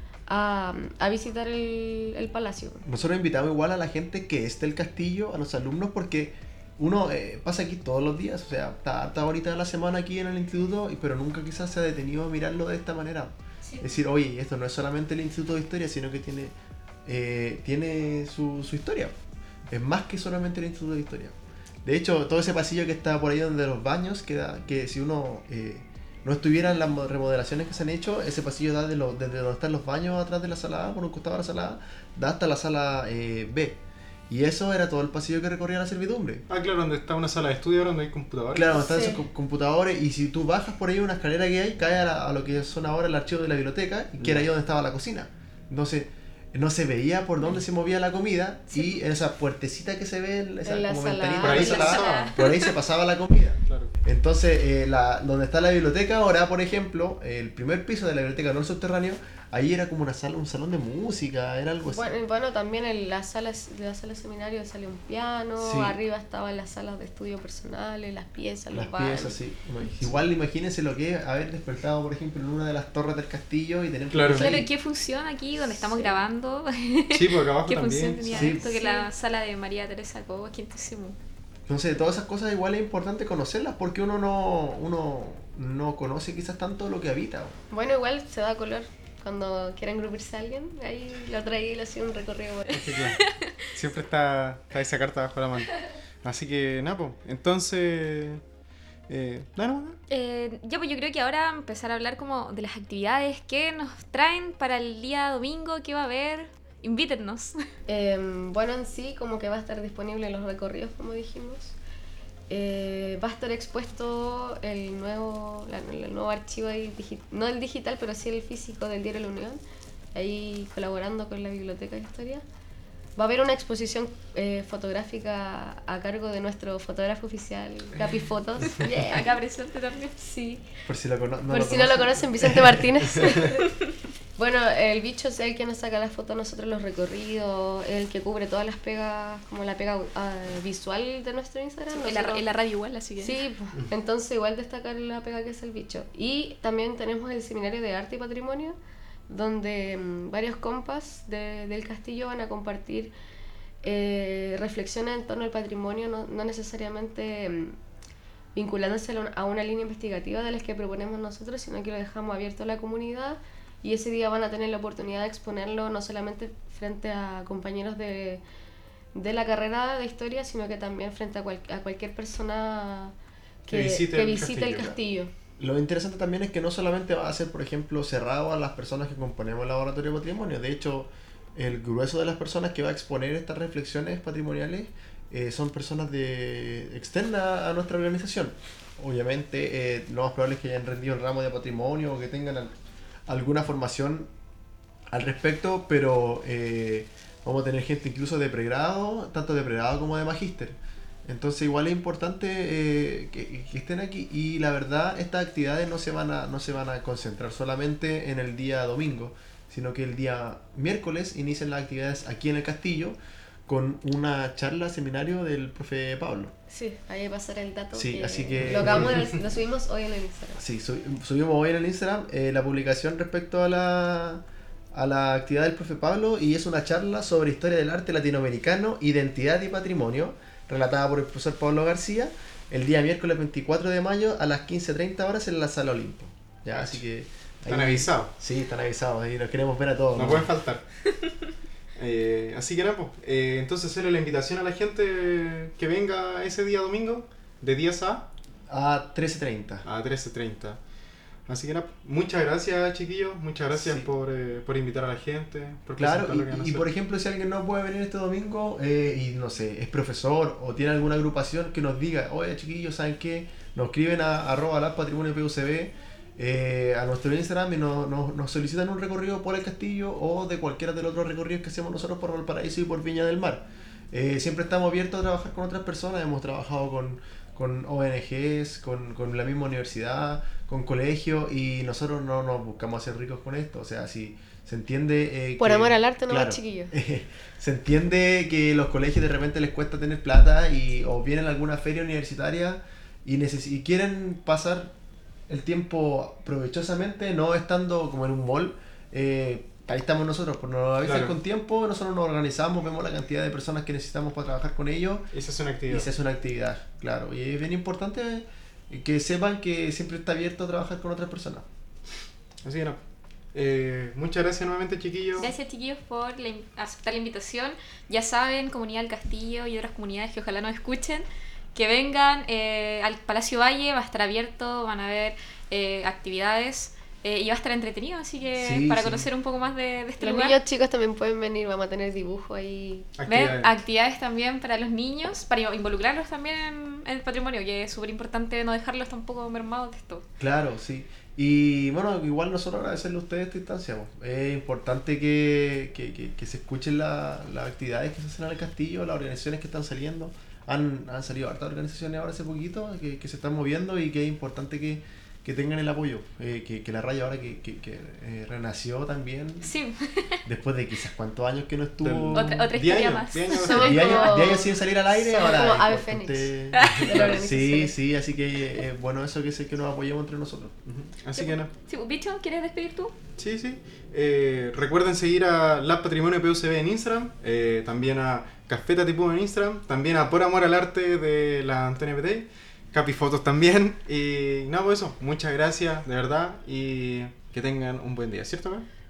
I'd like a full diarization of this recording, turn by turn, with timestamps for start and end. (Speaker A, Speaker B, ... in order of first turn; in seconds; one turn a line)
Speaker A: 0.3-2.8
Speaker B: 2.8-19.1
Speaker C: 13.6-13.9
Speaker B: 19.7-36.5
Speaker D: 36.5-38.8
Speaker B: 38.5-62.2
Speaker A: 38.7-39.2
Speaker D: 44.2-44.5
Speaker A: 50.6-52.0
Speaker D: 51.4-52.3
Speaker C: 51.7-52.7
Speaker D: 53.6-53.9
Speaker A: 61.9-69.4
Speaker B: 65.6-66.0
Speaker B: 68.7-74.7
Speaker D: 74.1-74.6
Speaker C: 74.3-81.2
Speaker A: 75.7-76.2
Speaker D: 77.1-78.5
Speaker B: 78.3-78.7
Speaker A: 78.4-79.1
Speaker B: 81.7-87.5
Speaker A: 87.7-93.0
Speaker D: 92.7-98.4
Speaker C: 93.2-93.5
Speaker D: 99.1-100.0
Speaker C: 100.1-107.6
Speaker A: 107.9-111.8
Speaker A: 112.5-119.6
Speaker A: 120.1-122.4
Speaker A: 123.2-129.3
Speaker C: 129.0-130.2
Speaker A: 130.2-130.7
Speaker B: 130.8-132.8
Speaker A: 131.5-133.7
Speaker C: 133.6-133.8
Speaker A: 134.4-142.4
Speaker C: 141.9-143.4
Speaker A: 143.2-148.8
Speaker A: 149.3-153.1
Speaker A: 153.8-157.8
Speaker A: 158.5-168.4
Speaker A: 169.1-173.1
Speaker A: 173.7-175.3
Speaker D: 173.7-174.9
Speaker B: 175.6-192.8
Speaker B: 193.3-194.3
Speaker B: 195.1-216.5
Speaker A: 216.7-220.6
Speaker B: 217.9-219.1
Speaker B: 220.6-240.5
Speaker D: 236.7-237.0
Speaker D: 237.7-238.3
Speaker D: 240.1-240.8
Speaker D: 241.9-248.3
Speaker B: 248.7-249.8
Speaker D: 249.8-250.8
Speaker D: 251.5-256.9
Speaker B: 253.7-254.1
Speaker B: 256.0-294.9
Speaker A: 285.6-286.9
Speaker B: 295.5-305.3
Speaker D: 301.0-301.4
Speaker D: 305.3-306.1
Speaker B: 305.9-311.6
Speaker D: 312.6-313.0
Speaker D: 313.5-315.5
Speaker C: 315.4-330.6
Speaker B: 328.6-329.3
Speaker A: 330.2-333.1
Speaker D: 333.2-333.7
Speaker C: 333.3-340.2
Speaker B: 340.4-359.7
Speaker C: 359.6-360.4
Speaker B: 360.4-362.6
Speaker D: 362.0-364.1
Speaker C: 362.3-364.4
Speaker A: 363.5-367.9
Speaker B: 363.7-370.7
Speaker C: 366.8-367.0
Speaker D: 366.8-367.4
Speaker D: 370.9-371.7
Speaker C: 371.3-373.1
Speaker D: 373.4-388.9